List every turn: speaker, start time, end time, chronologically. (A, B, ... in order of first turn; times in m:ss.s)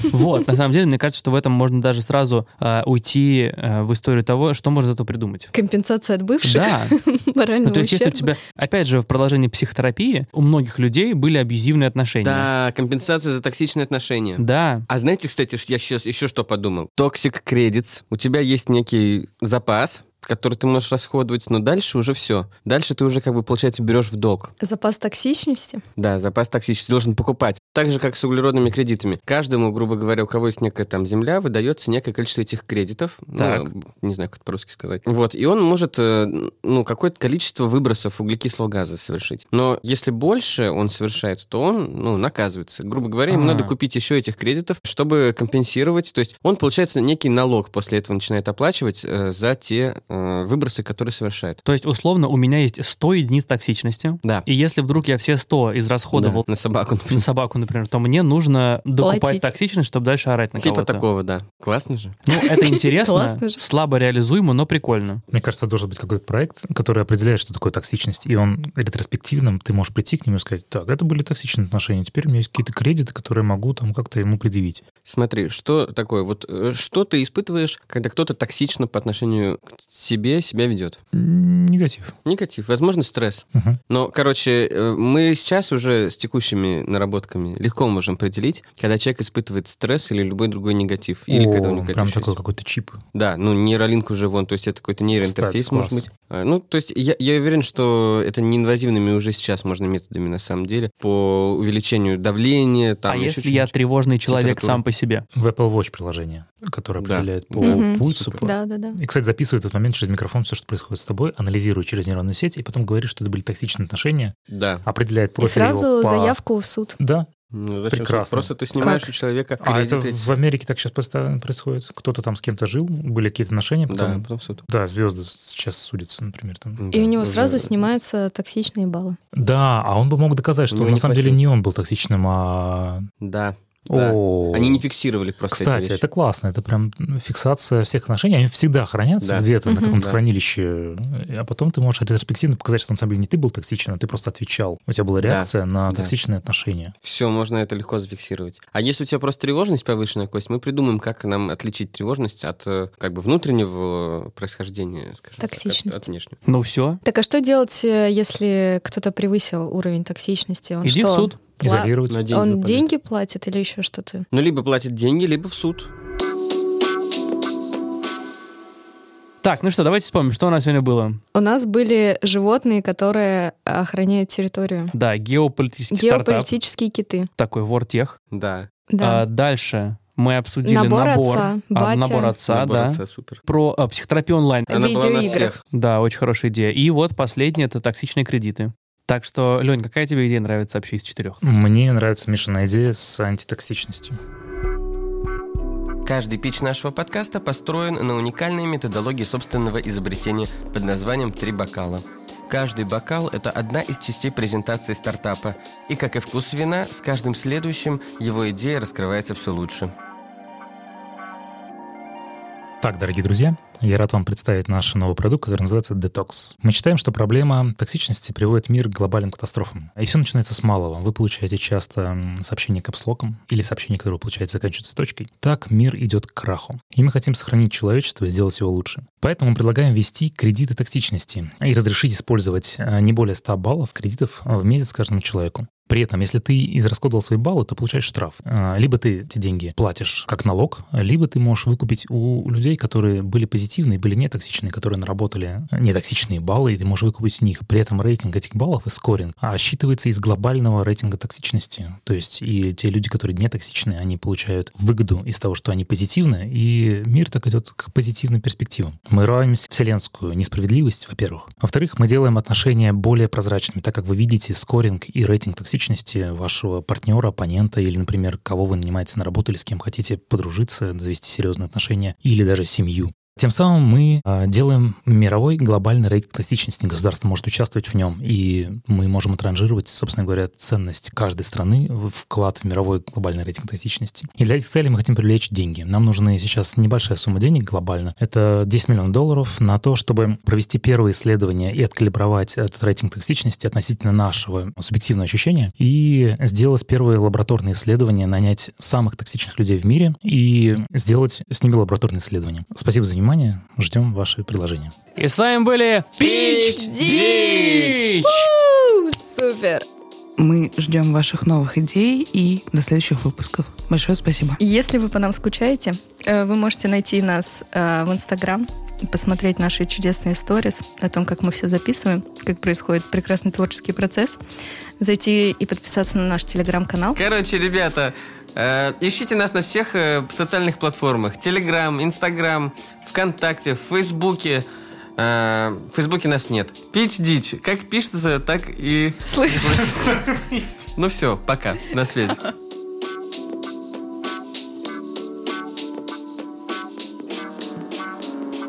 0:00.1-0:05.5 A
0:05.5-0:08.3 B
0:06.4-0:07.0 A
0:07.6-0:12.5 A
0:12.2-0:24.5 C
0:14.4-0:14.8 A
0:24.6-0:25.8 B
0:26.0-0:51.6 C
0:33.4-0:33.7 A
0:43.3-0:43.7 A
0:51.6-0:56.4 A
0:56.1-0:57.2 C
0:57.1-1:01.0 A
0:59.0-0:59.5 B
1:00.6-1:02.2 C
1:02.2-1:05.2 A
1:02.3-1:03.6 B
1:05.3-1:14.8 D
1:15.0-1:21.0 C
1:21.1-1:22.1 D
1:22.2-1:32.4 C
1:23.5-1:23.8 D
1:31.3-1:33.0 D
1:33.1-1:43.7 C
1:35.2-1:36.1 D
1:43.0-1:45.2 A
1:44.3-1:44.8 C
1:45.3-1:56.4 D
1:47.0-1:48.4 C
1:47.6-1:49.0 B
1:54.5-1:54.8 C
1:55.4-1:57.0 B
1:57.0-1:57.3 D
1:57.5-2:00.4 C
1:57.9-1:58.5 D
1:58.8-1:59.1 B
1:59.6-2:06.8 D
2:03.9-2:04.6 C
2:06.8-2:07.8 C
2:06.9-2:09.2 B
2:09.3-2:13.0 D
2:10.7-2:11.4 C
2:13.2-2:16.0 C
2:13.9-2:14.8 D
2:15.5-2:26.9 D
2:19.2-2:20.2 C
2:19.7-2:20.0 B
2:25.2-2:26.1 C
2:27.0-2:36.3 C
2:35.4-2:36.0 B
2:36.4-2:37.0 A
2:37.0-2:44.2 B
2:40.8-2:41.4 A
2:41.6-2:42.3 D
2:42.1-2:42.9 C
2:44.3-2:45.9 C
2:49.4-2:51.2 A
2:51.3-2:54.9 B
2:54.9-2:56.5 A
2:55.9-2:57.3 B
2:57.4-2:58.2 A
2:58.3-2:58.7 C
2:58.9-2:59.2 B
2:59.0-3:04.8 A
3:00.6-3:02.3 B
3:02.5-3:03.4 C
3:04.7-3:05.6 B
3:04.7-3:05.6 C
3:05.6-3:11.4 A
3:11.4-3:14.2 D
3:16.0-3:29.9 C
3:32.8-5:04.9 D
5:05.2-5:08.5 A
5:06.2-5:09.8 B
5:10.4-5:14.6 E
5:14.6-5:24.4 B
5:25.0-5:27.2 B
5:27.1-5:34.6 C
5:35.2-5:40.1 C
5:39.2-5:40.1 B
5:41.0-5:42.4 C